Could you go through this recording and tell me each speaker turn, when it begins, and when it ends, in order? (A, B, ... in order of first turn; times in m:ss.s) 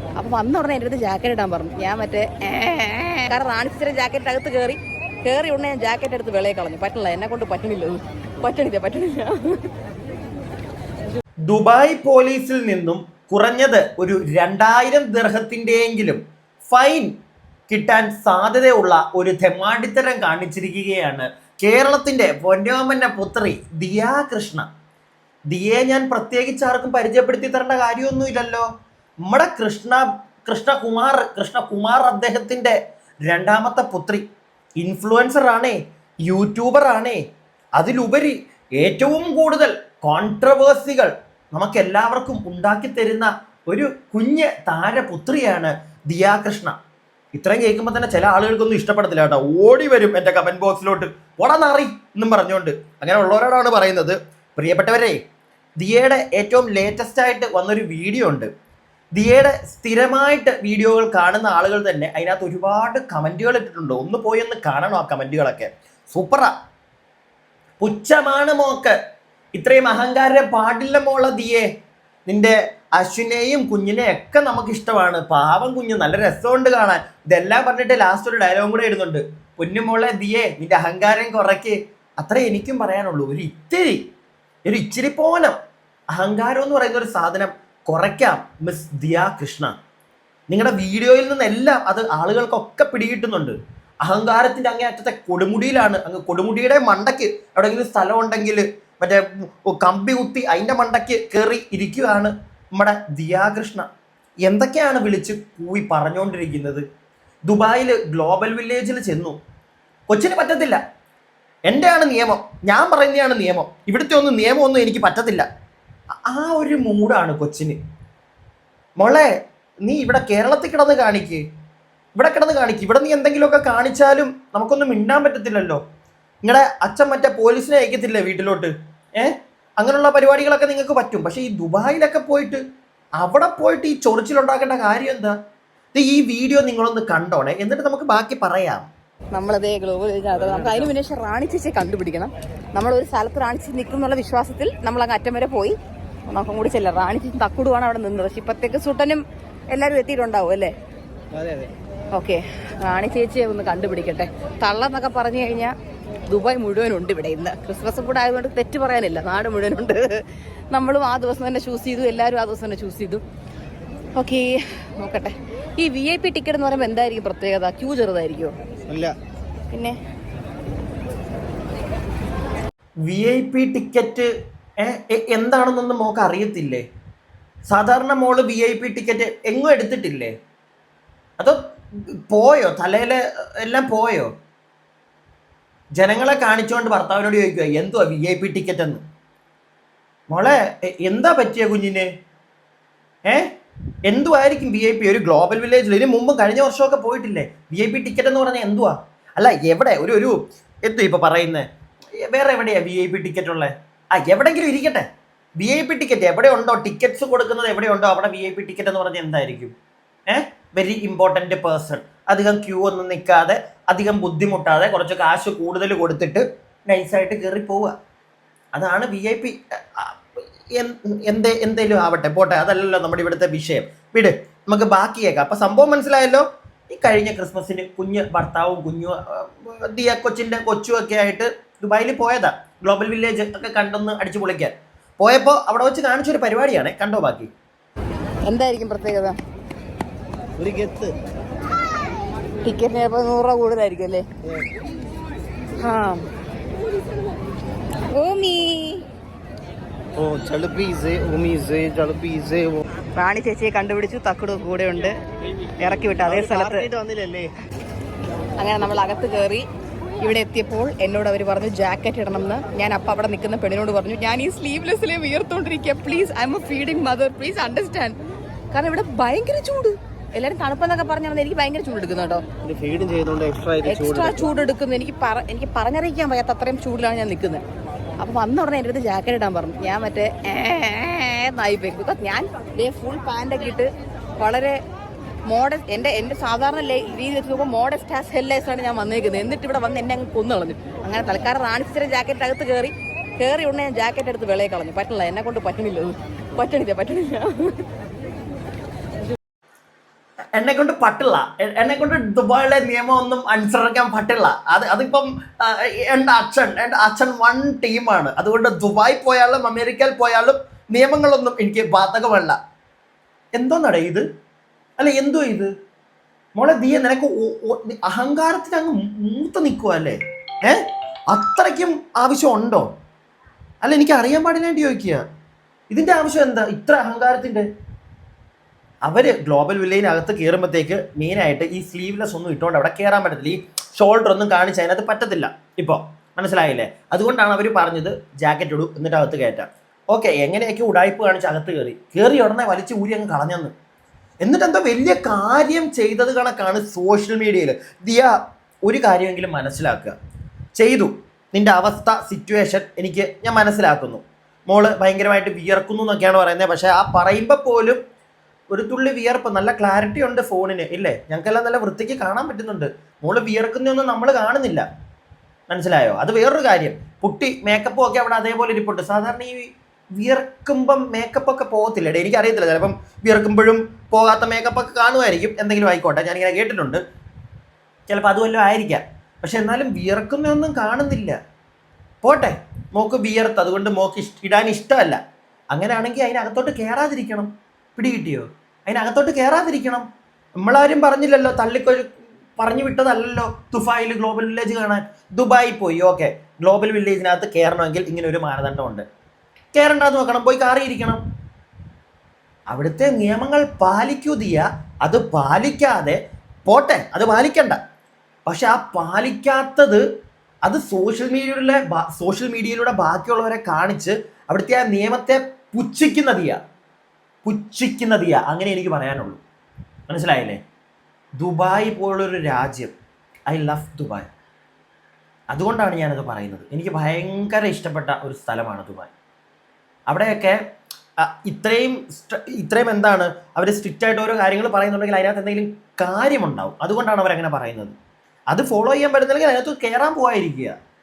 0:00.2-0:09.7 A
0:11.5-0:17.1 B
0:17.7-0:24.7 B
0:25.5-0:28.7 B
0:29.2-0:34.2 B
0:34.8-0:37.2 B
0:37.8-0:46.8 B
0:47.3-0:55.2 B
0:55.8-0:58.5 B
0:59.1-1:06.5 B
1:07.8-1:09.0 B
1:09.5-1:11.6 B
1:12.2-1:24.1 B
1:24.6-1:25.6 B
1:26.1-1:29.7 B
1:30.5-1:43.9 B
1:44.4-1:46.8 B
1:47.5-1:49.4 B
1:50.1-1:50.8 B
1:51.7-1:55.4 B
1:56.2-1:57.8 B
1:59.0-1:59.3 B
1:59.8-2:01.4 B
2:02.2-2:05.8 B
2:06.4-2:12.6 B
2:13.2-2:15.4 B
2:15.9-2:18.9 B
2:19.3-2:25.8 A
2:20.4-2:20.9 C
2:26.3-2:30.7 A
2:31.3-2:31.7 C
2:32.1-2:35.7 A
2:36.3-2:43.2 A
2:44.1-2:48.5 A
2:48.9-2:49.2 C
2:53.0-2:56.8 B
2:57.7-3:00.3 B
3:01.4-3:04.3 B
3:05.9-3:09.0 B
3:10.3-3:12.1 B
3:14.0-3:21.6 B
3:22.2-3:25.1 B
3:25.6-3:29.7 B
3:30.3-3:37.9 B
3:38.7-3:57.5 B
3:58.4-3:59.4 A
4:00.6-4:01.2 C
4:02.6-4:04.2 A
4:05.8-4:06.3 A
4:08.1-4:09.0 A
4:10.2-4:12.8 C
4:13.1-4:15.2 A
4:15.8-4:16.9 A
4:16.2-4:17.5 C
4:18.6-4:19.6 A
4:20.2-4:28.1 A
4:28.7-4:32.4 A
4:32.6-4:34.4 C
4:33.8-4:37.6 A
4:38.2-4:43.9 A
4:44.4-4:44.8 A
4:45.5-4:57.8 A
5:00.5-5:12.6 B
5:13.5-5:14.2 B
5:15.0-5:15.7 B
5:16.6-5:22.9 B
5:23.8-5:25.2 B
5:25.9-5:27.7 B
5:29.0-5:43.7 B
5:44.4-5:50.2 B
5:50.7-5:58.0 B
5:58.7-6:04.8 B
6:05.7-6:17.0 B
6:18.1-6:21.4 B
6:22.2-6:25.2 B
6:25.7-6:30.0 B
6:30.6-6:39.0 B
6:39.7-6:41.2 B
6:42.7-6:47.8 B
6:48.4-6:50.0 B
6:50.6-6:56.6 B
6:57.4-6:59.4 B
7:00.1-7:00.6 B
7:01.4-7:02.9 B
7:03.5-7:04.3 B
7:05.5-7:09.1 B
7:10.1-7:10.6 B
7:11.2-7:17.9 B
7:18.5-7:20.8 B